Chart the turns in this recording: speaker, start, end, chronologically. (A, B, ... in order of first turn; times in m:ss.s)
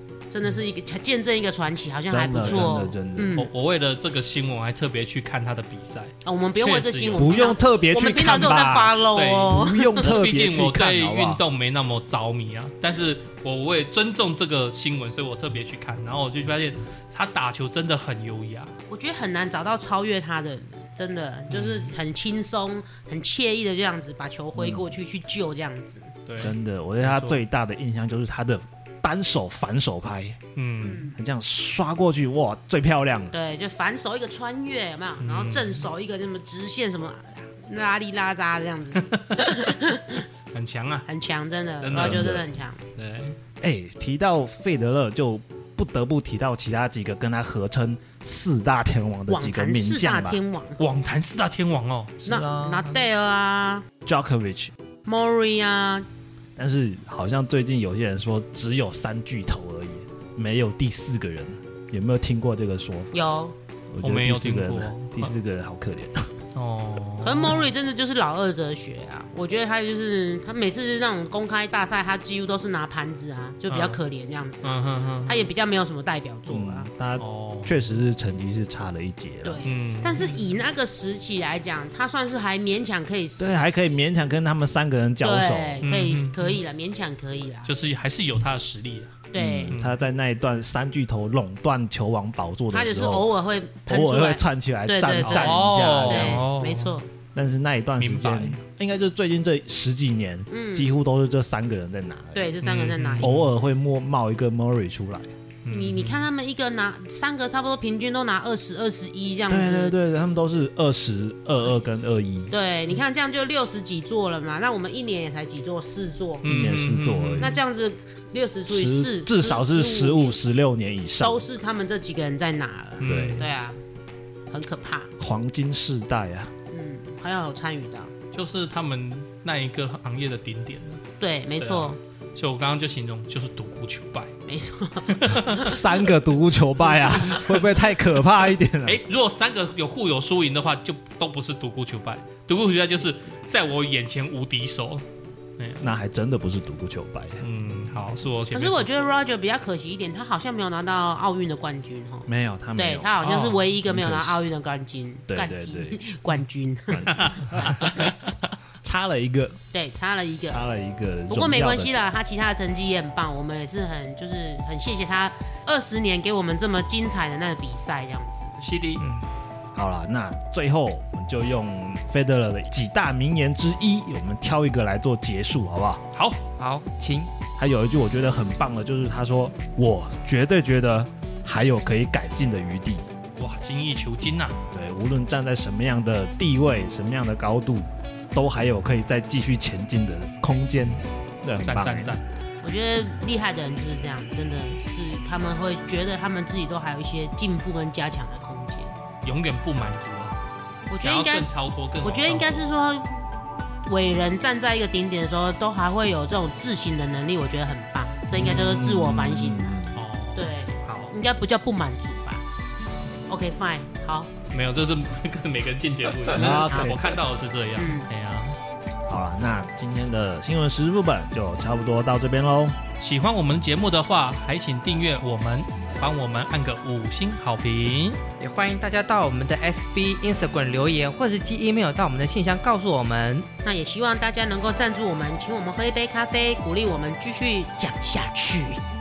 0:00.3-0:03.5 A
0:02.1-0:03.4 B
0:02.4-0:02.7 C
0:03.4-0:07.6 C
0:06.2-0:10.1 A
0:07.2-0:11.4 B
0:09.1-0:18.7 C
0:18.9-0:26.1 A
0:21.5-0:21.9 C
0:24.6-0:24.9 B
0:26.3-0:27.4 C
0:26.4-0:30.4 B
0:30.6-0:31.1 C
0:30.8-0:31.2 A
0:31.1-0:33.3 B
0:33.3-0:40.3 A
0:35.2-0:35.9 C
0:39.0-0:39.7 C
0:40.5-0:41.1 C
0:41.1-0:42.8 A
0:41.8-0:42.3 C
0:41.9-0:42.5 B
0:43.0-0:43.4 C
0:43.6-0:50.4 B
0:49.3-0:50.8 A
0:50.8-0:52.2 C
0:52.2-0:53.0 B
0:52.2-0:53.9 A
0:54.0-0:54.7 B
0:55.1-0:56.1 A
0:56.6-1:03.1 B
1:03.1-1:03.6 A
1:03.9-1:06.3 B
1:04.0-1:05.4 C
1:06.6-1:07.7 C
1:07.2-1:16.9 A
1:13.7-1:14.0 C
1:14.6-1:15.5 C
1:16.5-1:19.6 B
1:17.2-1:17.8 C
1:19.4-1:24.0 A
1:19.6-1:20.5 C
1:23.4-1:25.8 B
1:25.2-1:27.7 A
1:25.8-1:26.6 C
1:27.6-1:30.0 C
1:29.3-1:29.8 A
1:29.4-1:33.3 B
1:32.7-1:37.1 A
1:33.9-1:36.5 B
1:35.2-1:37.0 C
1:37.4-1:42.5 B
1:38.0-1:38.6 C
1:40.5-1:40.9 A
1:42.3-1:43.4 A
1:42.6-1:43.5 C
1:43.2-1:45.3 B
1:45.6-1:46.3 C
1:45.7-1:49.9 A
1:49.5-1:52.5 B
1:52.5-1:56.4 A
1:56.4-1:57.6 C
1:56.4-1:57.6 B
1:57.4-2:00.4 A
1:58.7-2:01.5 B
2:01.2-2:03.8 A
2:03.0-2:03.5 B
2:03.0-2:03.5 C
2:04.5-2:05.1 A
2:05.2-2:06.5 B
2:06.7-2:08.1 A
2:08.3-2:11.0 C
2:11.2-2:12.0 A
2:11.6-2:14.3 C
2:14.5-2:15.8 A
2:15.1-2:15.7 C
2:15.5-2:19.0 B
2:17.2-2:17.4 A
2:18.8-2:25.0 C
2:25.6-2:25.8 C
2:25.8-2:27.4 B
2:27.4-2:29.2 C
2:28.5-2:37.8 A
2:32.3-2:33.1 B
2:33.2-2:33.7 C
2:33.9-2:34.4 B
2:35.3-2:36.0 B
2:36.9-2:38.1 B
2:37.3-2:38.1 C
2:38.8-2:39.6 B
2:39.7-2:40.6 A
2:40.5-2:41.9 B
2:41.3-2:48.6 A
2:48.6-2:49.0 C
2:49.0-2:49.3 D
2:49.8-2:56.0 B
2:56.1-2:56.4 C
2:56.6-2:57.3 D
2:57.6-3:03.0 B
3:03.4-3:04.6 C
3:04.7-3:12.2 B
3:11.6-3:12.2 C
3:12.6-3:18.9 A
3:19.2-3:20.4 C
3:20.9-3:21.5 A
3:21.0-3:22.7 C
3:22.0-3:23.3 A
3:23.9-3:29.8 A
3:28.3-3:30.0 B
3:29.9-3:31.1 C
3:30.4-3:32.4 A
3:33.3-3:34.3 A
3:34.5-3:38.6 C
3:36.3-3:37.0 B
3:36.7-3:36.9 A
3:37.8-3:38.1 A
3:39.1-3:42.8 B
3:43.0-3:48.2 C
3:48.4-3:53.5 D
3:53.6-3:58.8 A